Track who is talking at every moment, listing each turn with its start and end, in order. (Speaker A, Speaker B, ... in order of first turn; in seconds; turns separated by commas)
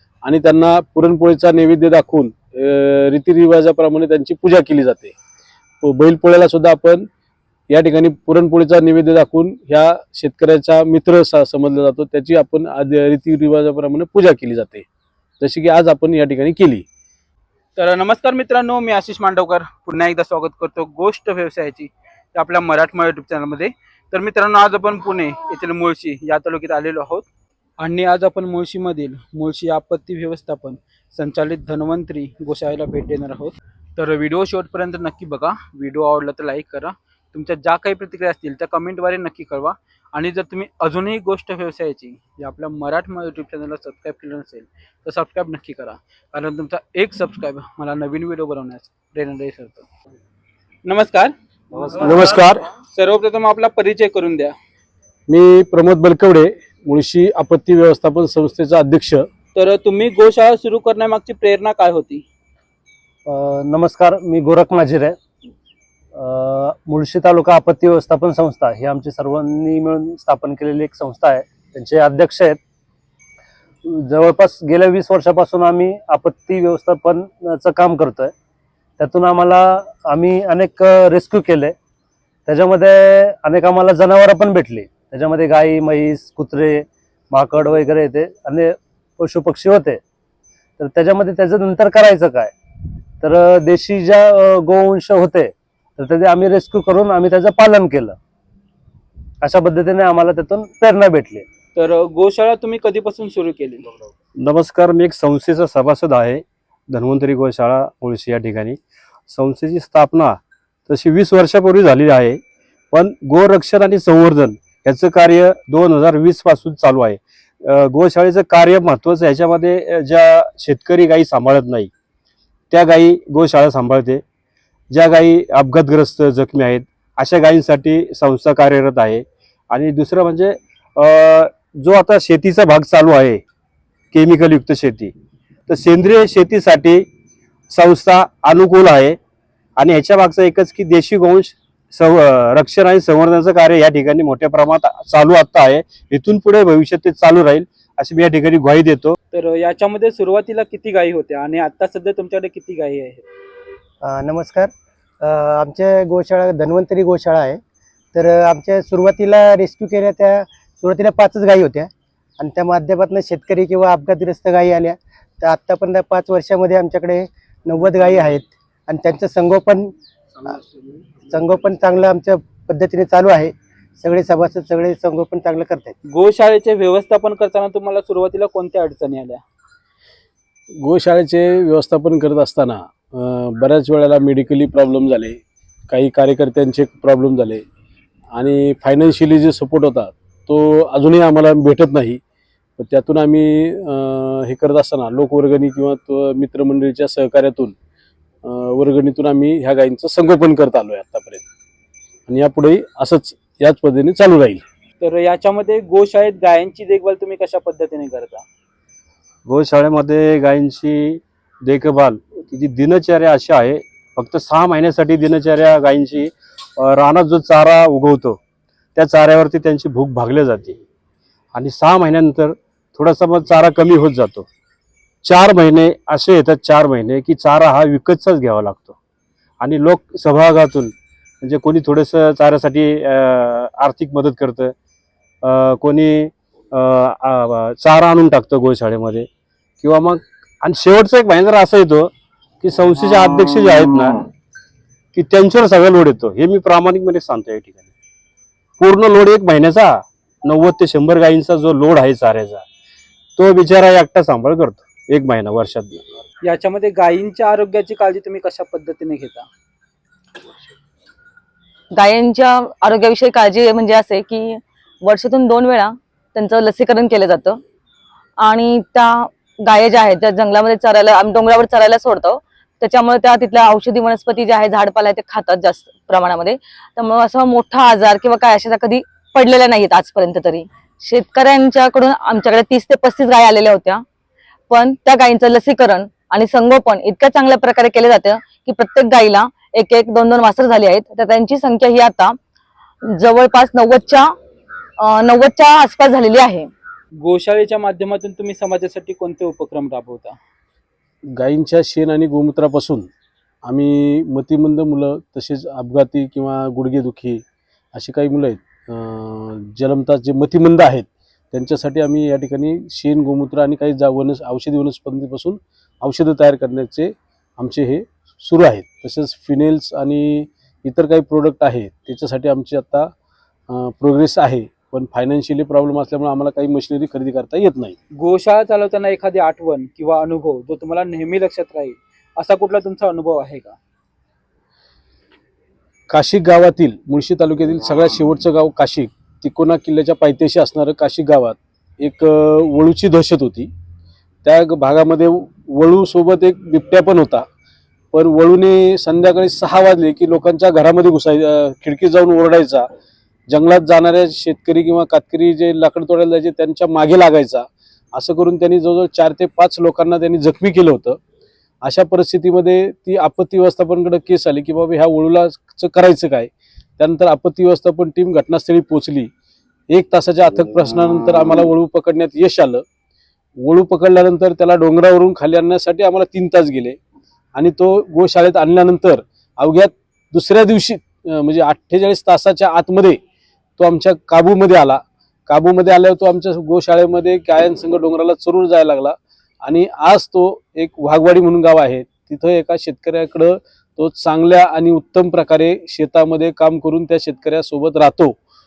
Speaker A: 0.2-5.1, Speaker A: 5.8-7.1, Speaker A: 7.7-14.9, Speaker A: 15.4-16.9, Speaker B: 17.8-27.2, Speaker B: 27.8-49.9, Speaker B: 50.9-51.3, Speaker A: 51.9-52.7, Speaker B: 52.9-54.5, Speaker A: 55.3-59.3, Speaker B: 59.5-62.2, Speaker C: 63.3-65.2, Speaker C: 66.2-72.6, Speaker C: 73.8-78.3, Speaker C: 79.0-81.7, Speaker C: 82.5-90.0, Speaker C: 90.8-92.5, Speaker C: 93.2-98.2, Speaker C: 99.4-101.4, Speaker B: 101.8-103.9, Speaker D: 104.4-112.4, Speaker D: 112.9-121.9, Speaker D: 122.7-124.2, Speaker D: 124.9-133.4, Speaker D: 134.1-135.1, Speaker D: 135.7-137.1, Speaker D: 137.7-139.2, Speaker D: 139.8-149.2, Speaker B: 149.3-153.2, Speaker E: 154.0-157.6, Speaker E: 158.1-169.9, Speaker E: 171.3-175.9, Speaker B: 176.1-179.4, Speaker A: 180.8-187.6, Speaker A: 188.3-192.2, Speaker A: 192.8-197.7, Speaker A: 198.4-201.4, Speaker A: 202.3-204.6, Speaker B: 205.0-208.4, Speaker D: 209.4-218.4, Speaker D: 218.9-220.8, Speaker D: 221.5-224.5, Speaker D: 225.2-229.0, Speaker D: 229.6-234.7, Speaker D: 235.4-239.3, Speaker D: 239.8-242.1, Speaker D: 242.6-244.2, Speaker D: 245.1-247.8, Speaker D: 248.8-252.6, Speaker D: 253.4-256.0, Speaker B: 256.4-259.5, Speaker F: 261.9-267.6, Speaker F: 268.4-284.0, Speaker F: 284.7-292.4, Speaker F: 293.1-294.3, Speaker F: 295.0-296.7, Speaker B: 297.2-300.3, Speaker A: 301.4-303.1, Speaker A: 303.6-307.4, Speaker A: 307.9-323.1, Speaker A: 323.7-328.0, Speaker B: 328.2-333.8, Speaker A: 336.1-343.7, Speaker A: 344.4-347.4, Speaker A: 348.1-352.9, Speaker A: 353.5-361.2, Speaker A: 361.8-369.3, Speaker A: 369.9-372.8, Speaker A: 373.6-377.0, Speaker A: 377.5-383.2, Speaker A: 383.8-398.4